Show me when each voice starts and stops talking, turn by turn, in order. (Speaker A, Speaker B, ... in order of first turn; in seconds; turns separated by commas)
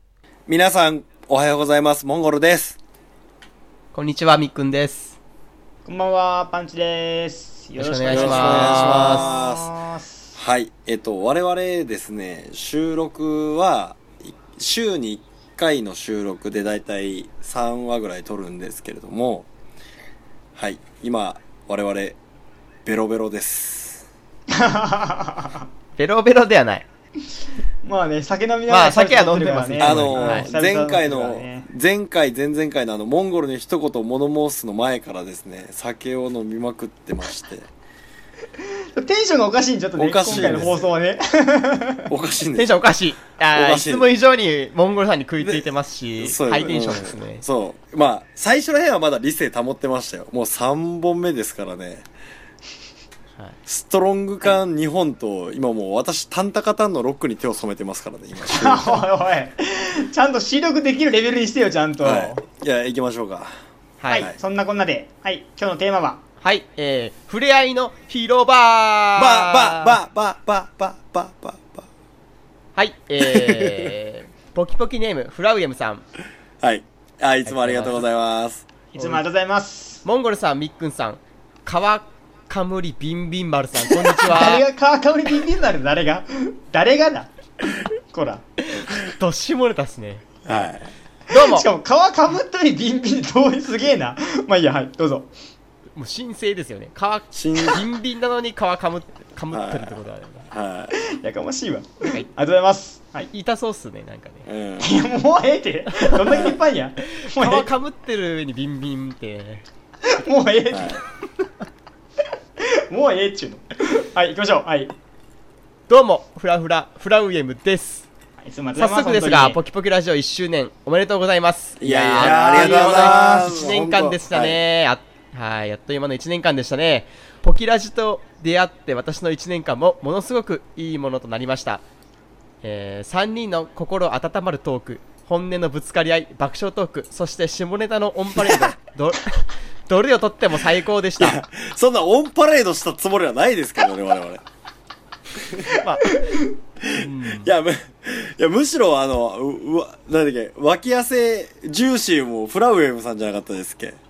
Speaker A: 0.5-2.8, Speaker B: 3.9-5.2, Speaker C: 5.8-10.2, Speaker B: 7.8-9.3, Speaker A: 8.1-9.7, Speaker A: 10.3-19.5, Speaker A: 20.6-22.1, Speaker A: 22.8-24.1, Speaker C: 24.5-25.6, Speaker B: 26.0-26.8, Speaker C: 27.8-31.7, Speaker B: 28.7-30.5, Speaker A: 29.8-37.7, Speaker C: 38.9-42.1, Speaker A: 40.0-40.8, Speaker A: 42.1-42.8, Speaker B: 42.5-47.4, Speaker A: 43.5-44.1, Speaker A: 45.4-45.6, Speaker A: 46.2-52.0, Speaker A: 53.7-59.0, Speaker C: 58.5-62.4, Speaker A: 62.0-63.5, Speaker B: 64.0-64.3, Speaker C: 64.1-66.2, Speaker B: 66.4-70.0, Speaker A: 69.2-71.8, Speaker B: 72.7-76.0, Speaker A: 73.2-73.9, Speaker A: 76.6-78.7, Speaker B: 77.5-78.0, Speaker C: 78.9-80.0, Speaker B: 79.0-79.2, Speaker B: 80.0-84.6, Speaker C: 84.2-87.3, Speaker C: 88.1-88.4, Speaker B: 88.7-90.7, Speaker A: 90.5-90.9, Speaker B: 91.3-91.7, Speaker C: 91.3-95.3, Speaker B: 96.0-100.5, Speaker A: 97.3-97.8, Speaker A: 99.5-100.0, Speaker A: 100.5-100.9, Speaker C: 100.9-103.3, Speaker B: 102.0-102.3, Speaker B: 103.3-104.5, Speaker A: 104.5-104.9, Speaker C: 104.8-107.7, Speaker B: 105.9-106.5, Speaker B: 107.1-109.6, Speaker C: 110.1-111.0, Speaker A: 110.7-111.0, Speaker C: 112.7-114.9, Speaker B: 115.9-118.0, Speaker C: 118.4-119.6, Speaker B: 118.8-131.8, Speaker A: 121.8-124.6, Speaker C: 122.2-123.7, Speaker B: 132.6-141.4, Speaker A: 141.2-144.4, Speaker A: 145.5-145.8, Speaker B: 145.8-146.2, Speaker A: 146.8-154.0, Speaker B: 147.0-147.5